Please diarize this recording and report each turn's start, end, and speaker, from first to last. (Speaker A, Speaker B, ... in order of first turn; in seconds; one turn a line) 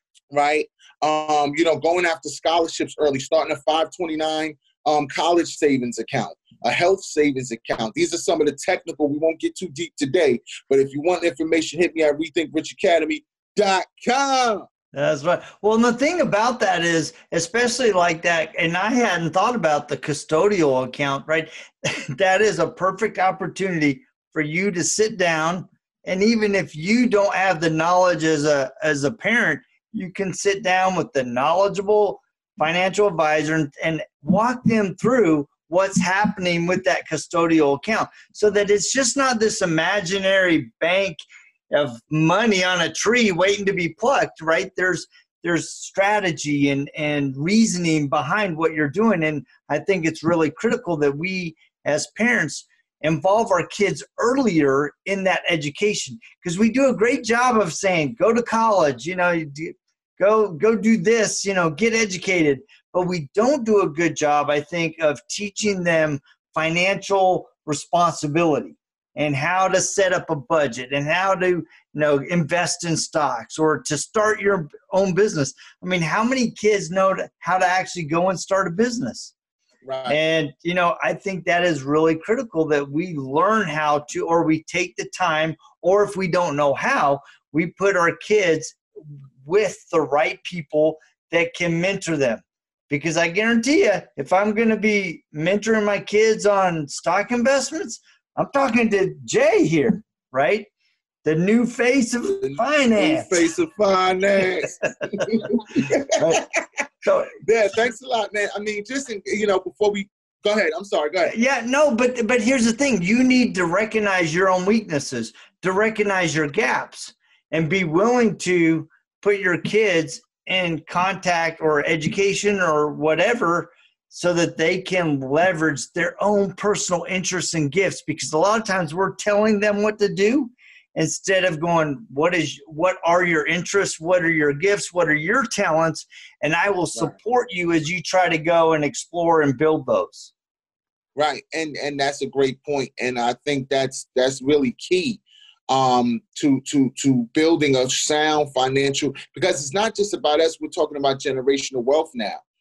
Speaker A: 0.3-14.7
Speaker B: 14.9-79.3
Speaker A: 79.9-80.2
Speaker B: 80.1-88.8
Speaker B: 89.4-100.7
Speaker B: 101.2-103.5
Speaker A: 102.4-106.4
Speaker B: 105.1-106.5
Speaker B: 107.0-107.4
Speaker A: 107.4-111.3
Speaker B: 111.3-140.3
Speaker A: 141.2-152.4